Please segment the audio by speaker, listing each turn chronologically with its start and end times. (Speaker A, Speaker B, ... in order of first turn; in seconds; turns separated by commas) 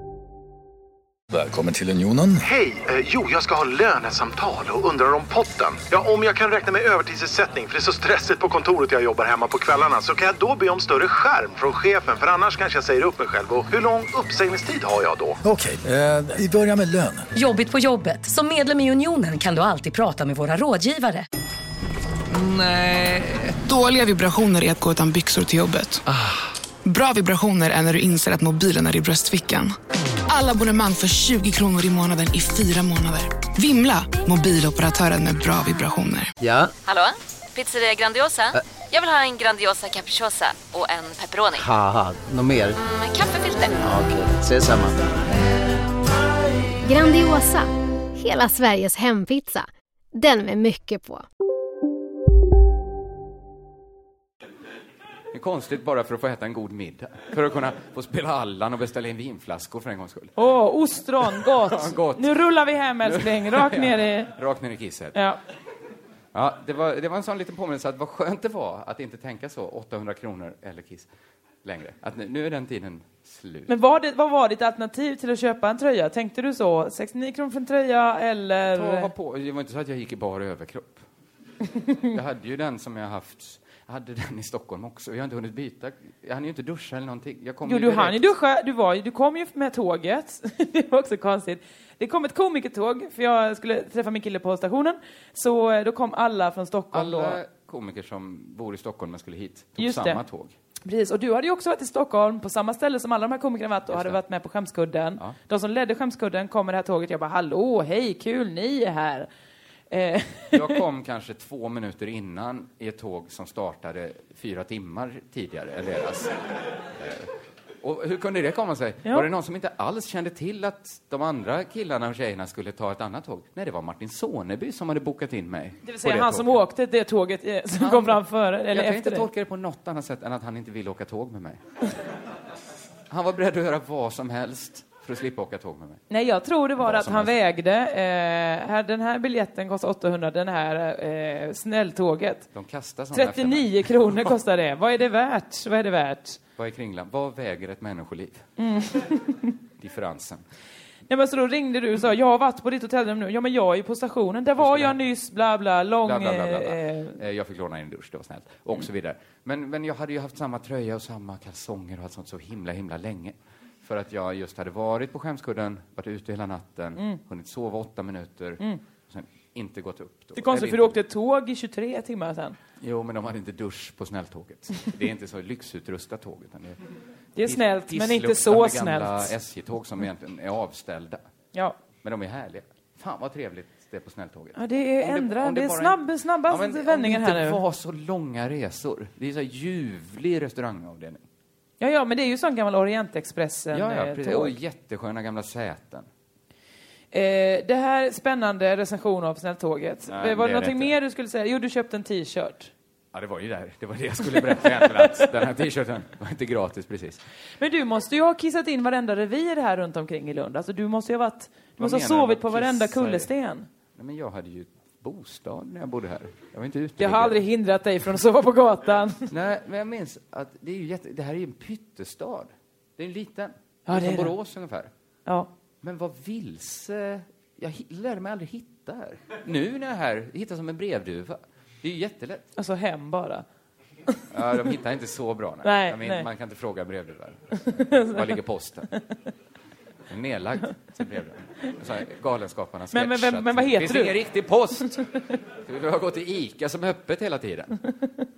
Speaker A: 1.3-2.4, Speaker B: 2.4-15.4, Speaker A: 15.4-17.3, Speaker C: 17.4-21.3, Speaker D: 22.3-26.1, Speaker D: 26.9-29.8, Speaker D: 30.3-36.3, Speaker E: 36.4-36.7, Speaker F: 36.9-41.7, Speaker E: 41.5-42.8, Speaker F: 42.8-43.8, Speaker E: 43.8-45.0, Speaker G: 46.9-51.2, Speaker H: 55.3-60.4, Speaker I: 60.4-64.3, Speaker H: 61.2-62.5, Speaker H: 63.0-65.2, Speaker H: 66.3-71.1, Speaker H: 71.6-73.7, Speaker I: 73.7-79.1, Speaker H: 78.7-81.0, Speaker H: 81.9-88.2, Speaker I: 87.7-97.4, Speaker H: 96.9-100.5, Speaker I: 99.8-100.2, Speaker I: 100.8-109.3, Speaker H: 103.9-104.2, Speaker I: 109.9-110.8, Speaker H: 110.5-116.3, Speaker H: 116.9-117.3, Speaker H: 117.8-126.6, Speaker I: 125.8-129.3, Speaker H: 127.8-131.6, Speaker H: 133.1-136.0, Speaker I: 136.1-142.5, Speaker H: 136.8-137.4, Speaker H: 142.5-144.3, Speaker I: 143.1-146.4, Speaker H: 146.6-148.5, Speaker I: 148.6-149.5, Speaker H: 149.8-150.4, Speaker I: 151.1-157.2, Speaker H: 154.6-155.0, Speaker H: 156.0-171.0, Speaker I: 170.4-172.6, Speaker H: 172.8-176.8, Speaker I: 177.4-179.3, Speaker H: 177.4-181.2, Speaker H: 182.0-191.2, Speaker I: 184.6-187.6, Speaker I: 191.8-194.6, Speaker H: 193.7-196.1, Speaker I: 197.1-202.7, Speaker H: 200.1-200.9, Speaker H: 203.1-207.2, Speaker I: 204.6-205.1, Speaker I: 207.6-213.7, Speaker H: 211.8-213.3, Speaker H: 213.9-217.4, Speaker I: 217.0-219.3, Speaker H: 219.3-224.9, Speaker I: 223.9-224.3, Speaker H: 225.8-232.5, Speaker I: 232.6-233.4, Speaker H: 234.3-238.9, Speaker I: 235.6-236.3, Speaker I: 237.5-238.4, Speaker H: 240.1-245.1, Speaker I: 242.9-244.2, Speaker H: 245.6-247.8